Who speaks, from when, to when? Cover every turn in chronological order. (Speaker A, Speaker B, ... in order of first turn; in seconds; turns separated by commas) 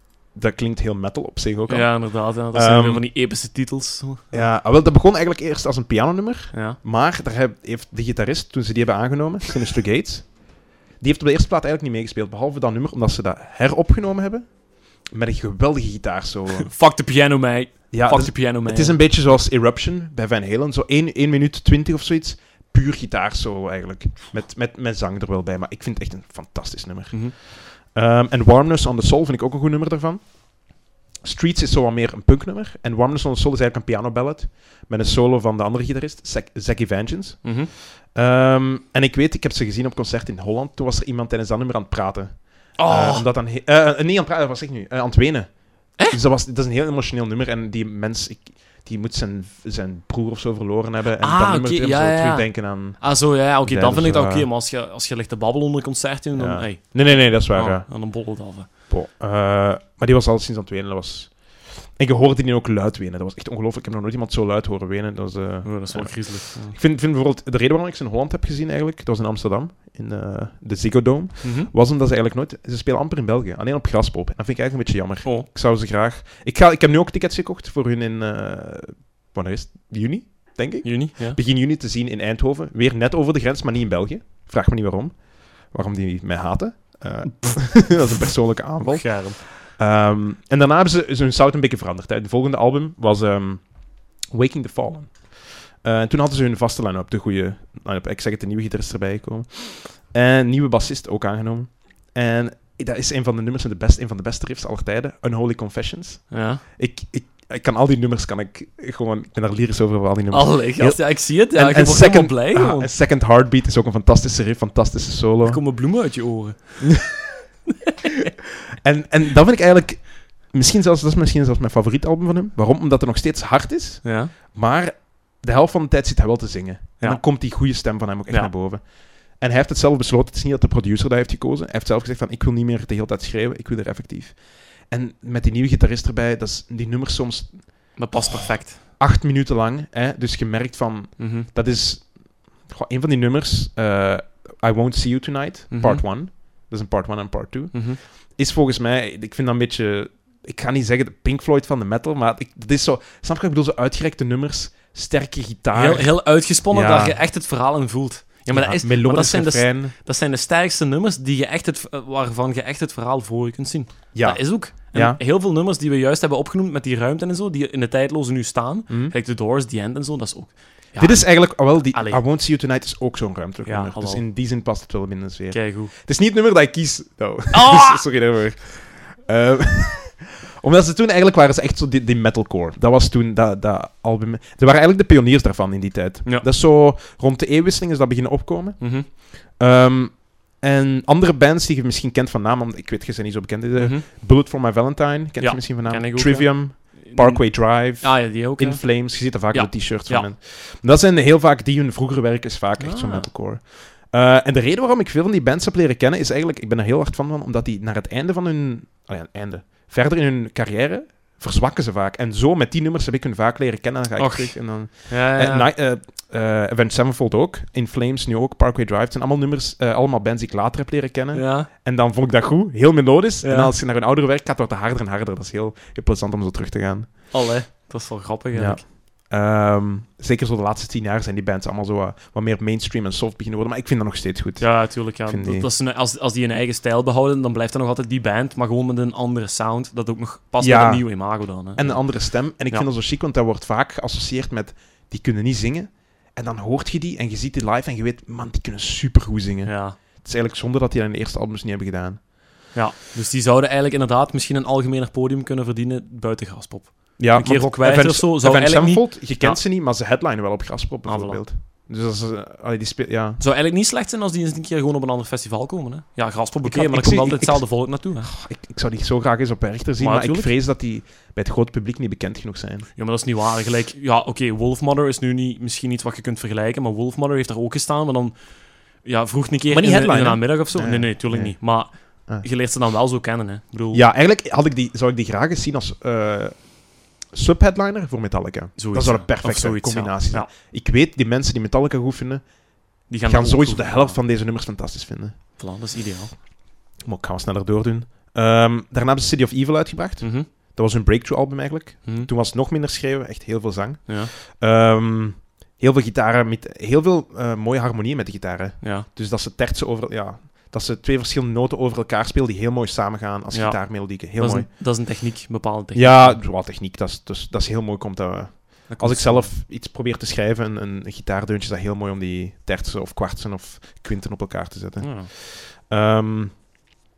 Speaker A: 0.3-3.1, Speaker B: 1.7-4.5, Speaker A: 4.3-16.8, Speaker B: 6.5-6.8, Speaker B: 16.7-19.4, Speaker A: 17.9-54.5, Speaker B: 37.4-37.7, Speaker B: 42.8-43.3, Speaker B: 51.2-58.7, Speaker A: 56.3-115.7, Speaker B: 65.6-66.8, Speaker B: 71.4-71.7, Speaker B: 80.8-81.4, Speaker B: 87.2-88.2, Speaker B: 88.8-89.4, Speaker B: 106.3-106.6, Speaker B: 110.3-112.9, Speaker B: 115.4-117.2, Speaker A: 118.8-157.2, Speaker B: 124.0-124.3, Speaker B: 127.0-127.4, Speaker B: 137.9-138.8, Speaker B: 141.2-141.5, Speaker B: 145.7-146.0, Speaker B: 147.7-148.0, Speaker B: 155.7-172.2, Speaker A: 158.5-159.9, Speaker A: 164.1-165.2, Speaker A: 168.9-169.1, Speaker A: 171.0-227.5, Speaker B: 173.6-174.2, Speaker B: 175.5-175.9, Speaker B: 177.5-178.0, Speaker B: 188.8-189.1, Speaker B: 193.8-194.0, Speaker B: 195.4-200.3, Speaker B: 202.8-203.3, Speaker B: 214.2-215.7, Speaker B: 221.3-221.7, Speaker B: 223.4-223.7, Speaker B: 227.3-228.8, Speaker A: 228.5-235.7, Speaker B: 234.6-242.9, Speaker A: 240.6-252.3, Speaker B: 249.6-250.0, Speaker B: 252.7-259.6, Speaker A: 257.2-263.4, Speaker B: 261.0-261.4, Speaker B: 263.4-268.3, Speaker A: 266.6-272.9, Speaker B: 270.0-270.5, Speaker B: 272.9-284.0, Speaker A: 279.7-282.5, Speaker A: 283.9-295.6, Speaker B: 288.8-290.5, Speaker B: 293.1-294.2, Speaker B: 295.6-296.3, Speaker A: 297.0-314.9, Speaker B: 300.2-300.5, Speaker B: 304.1-304.3, Speaker B: 308.8-309.1, Speaker B: 313.5-316.4, Speaker A: 315.9-326.9, Speaker B: 318.9-319.5, Speaker B: 325.0-325.3